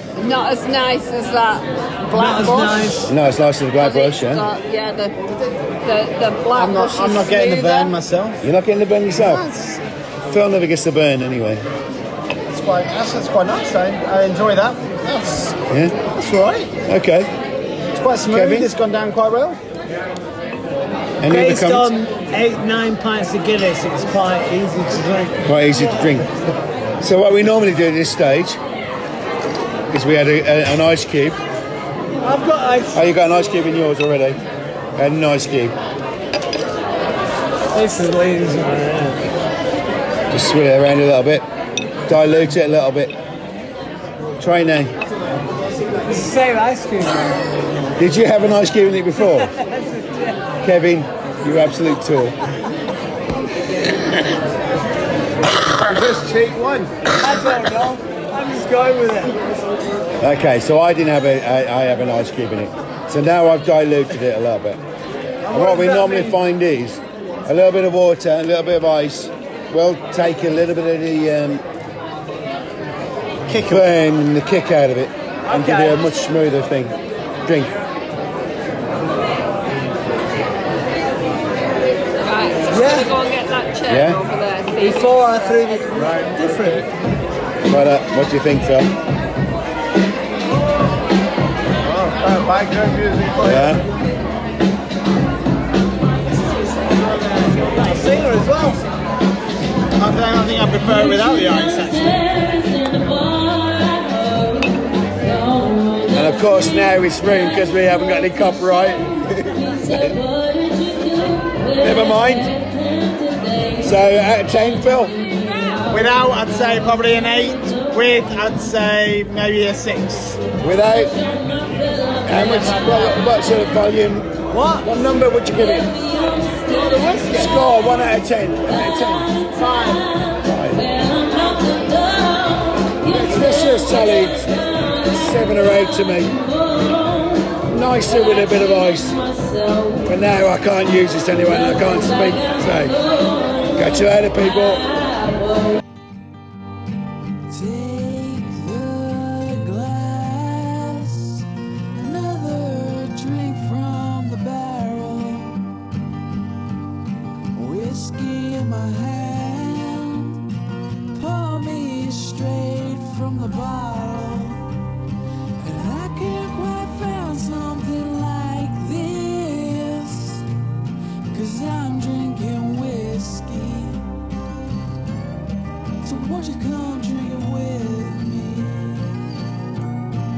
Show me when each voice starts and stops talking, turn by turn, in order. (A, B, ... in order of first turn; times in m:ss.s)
0:00.2-0:03.0 A
0:02.1-0:03.1 B
0:03.0-0:04.4 C
0:03.8-0:05.3 A
0:05.8-0:07.9 A
0:06.6-0:08.4 D
0:08.4-0:09.5 C
0:09.2-0:09.8 D
0:10.3-0:11.6 C
0:12.5-0:16.7 D
0:15.7-0:16.0 C
0:16.8-0:17.3 C
0:17.9-0:19.6 D
0:18.3-0:18.7 C
0:21.2-0:21.9 C
0:21.3-0:25.4 B
0:25.4-0:26.4 C
0:27.0-0:28.6 C
0:29.9-0:31.4 C
0:32.2-0:33.0 B
0:32.9-0:34.4 C
0:35.0-0:35.7 C
0:37.7-0:39.3 B
0:40.3-0:41.4 C
0:42.1-0:43.1 C
0:44.4-0:44.9 C
0:46.1-0:47.4 B
0:48.0-0:49.5 C
0:49.2-0:50.4 B
0:50.6-0:52.4 C
0:55.8-0:56.9 D
0:57.1-0:59.4 B
1:00.2-1:04.8 C
1:05.4-1:06.4 B
1:05.5-1:11.6 C
1:13.5-1:13.8 D
1:13.5-1:17.8 C
1:15.5-1:16.0 B
1:22.2-1:25.9 A
1:22.7-1:23.2 B
1:23.8-1:24.2 C
1:24.8-1:26.9 B
1:26.0-1:26.3 E
1:27.6-1:28.9 C
1:31.8-1:32.8 D
1:32.1-1:33.7 E
1:33.4-1:33.8 C
1:36.9-1:38.8 B
1:40.0-1:42.1 D
1:46.1-1:50.2 C
1:51.7-1:52.5 C
1:53.8-1:55.1 C
1:55.9-2:00.4 D
2:00.6-2:01.2 C
2:02.2-2:06.0 C
2:02.3-2:03.1 D
2:04.5-2:04.9 B
2:07.3-2:09.4 C
2:09.6-2:10.0 B
2:10.4-2:10.9 C
2:13.0-2:16.4 C
2:17.6-2:19.2 C
2:20.0-2:23.0 C
2:23.7-2:24.9 C
2:27.5-2:35.7 F
2:37.5-2:40.5 F
2:41.1-2:44.8 F
2:45.6-2:50.5 F
2:51.3-2:54.1 F
2:56.0-2:59.3 F